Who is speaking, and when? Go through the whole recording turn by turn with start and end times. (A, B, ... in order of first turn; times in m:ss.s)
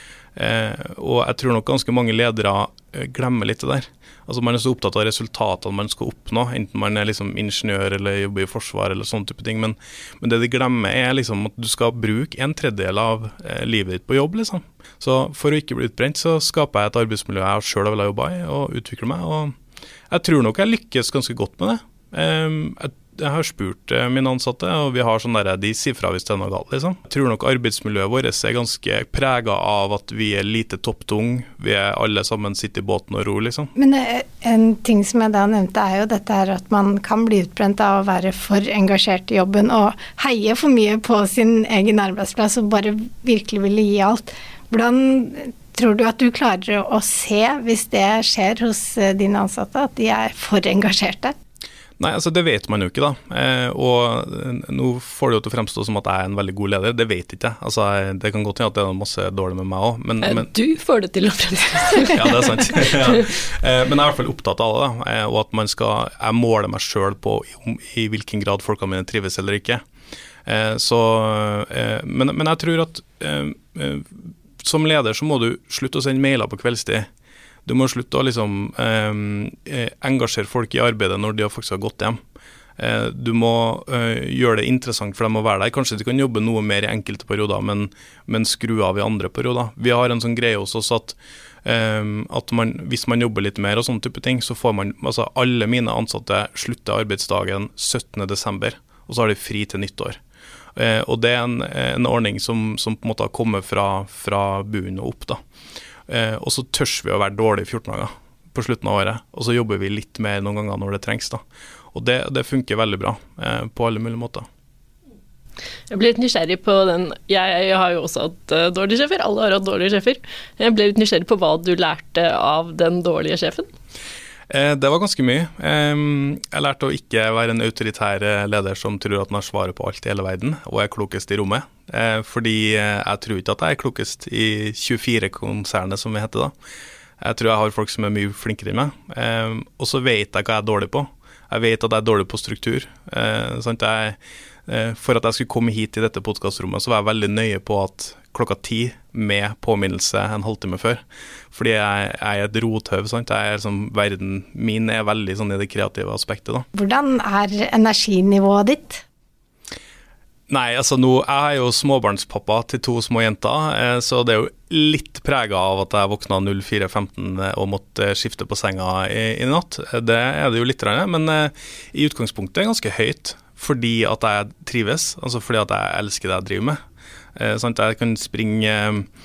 0:00.4-0:19.5 A
0:20.1-0:33.7 A
0:33.8-0:51.4 B
0:52.0-1:00.5 A
1:00.2-1:03.3 C
1:02.1-1:09.8 A
1:10.5-1:17.1 A
1:17.6-1:22.2 A
1:22.8-1:40.2 A
1:40.8-1:45.4 A
1:46.1-1:51.4 A
1:51.9-1:54.5 A
1:55.9-2:03.7 C
2:04.5-2:16.5 A
2:17.2-2:36.7 A
2:36.8-2:39.0 B
2:40.5-2:56.8 A
2:57.4-2:59.1 A